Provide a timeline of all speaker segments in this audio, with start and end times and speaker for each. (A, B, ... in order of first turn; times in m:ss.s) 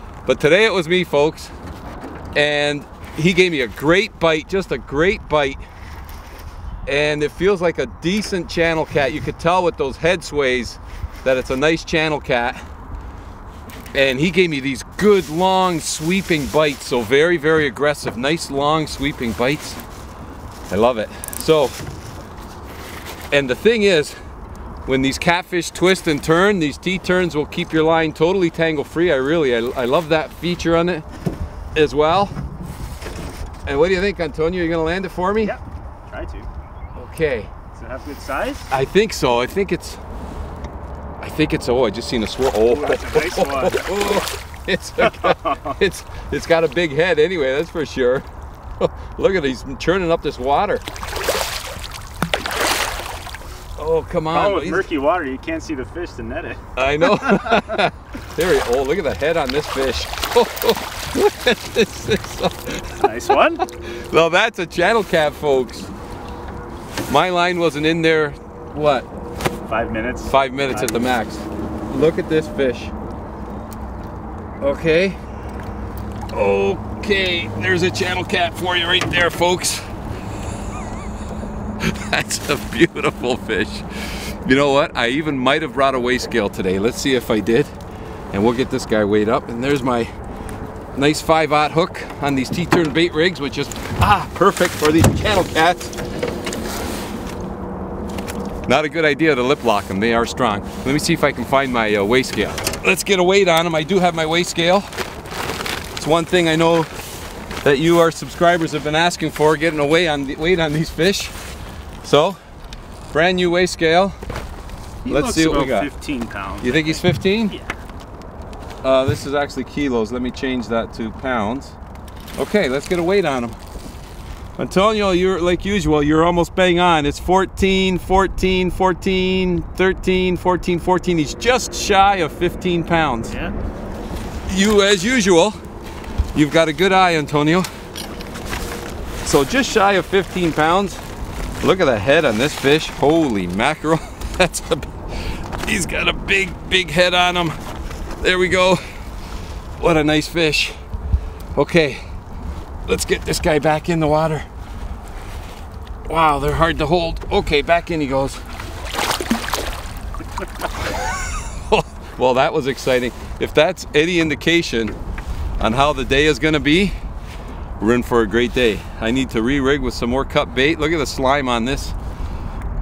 0:00.3-0:01.5 A
0:02.4-0:05.6 A
0:06.9-0:12.6 A
0:13.9-0:19.8 A
0:20.7-0:21.8 A
0:23.3-0:24.2 A
0:24.9-0:31.0 A
0:31.8-0:32.3 A
0:33.7-0:35.6 A
0:35.4-0:36.5 B
0:37.0-0:37.5 A
0:37.8-0:38.7 B
0:38.7-0:40.0 A
0:41.2-0:48.2 A
0:42.7-0:43.8 B
0:45.0-0:45.8 B
0:48.8-0:50.8 A
0:53.8-0:54.9 A
0:54.3-0:56.6 B
0:56.8-1:05.9 A
0:57.2-0:57.6 B
1:03.0-1:03.6 B
1:07.1-1:09.1 A
1:09.7-1:11.1 B
1:10.2-1:12.9 A
1:14.6-1:15.2 A
1:16.3-1:19.8 A
1:21.8-1:27.7 A
1:28.3-1:30.1 A
1:31.0-1:36.0 A
1:38.7-1:44.9 A
1:46.0-1:46.9 A
1:47.6-1:51.3 A
1:52.0-1:52.4 A
1:53.1-1:54.2 A
1:55.0-1:57.7 B
1:55.1-1:55.9 A
1:56.6-1:57.6 A
1:58.8-2:01.8 A
2:02.4-2:03.6 A
2:04.6-2:13.3 A
2:13.3-2:13.5 B
2:14.5-2:15.6 A
2:16.3-2:17.7 A
2:19.2-2:21.0 A
2:21.6-2:27.6 A
2:28.2-2:28.8 A
2:29.8-2:30.8 A
2:31.6-2:32.0 A
2:32.9-2:34.5 A
2:36.1-2:38.4 A
2:40.8-2:45.0 A
2:45.6-2:46.9 A
2:47.8-2:52.0 A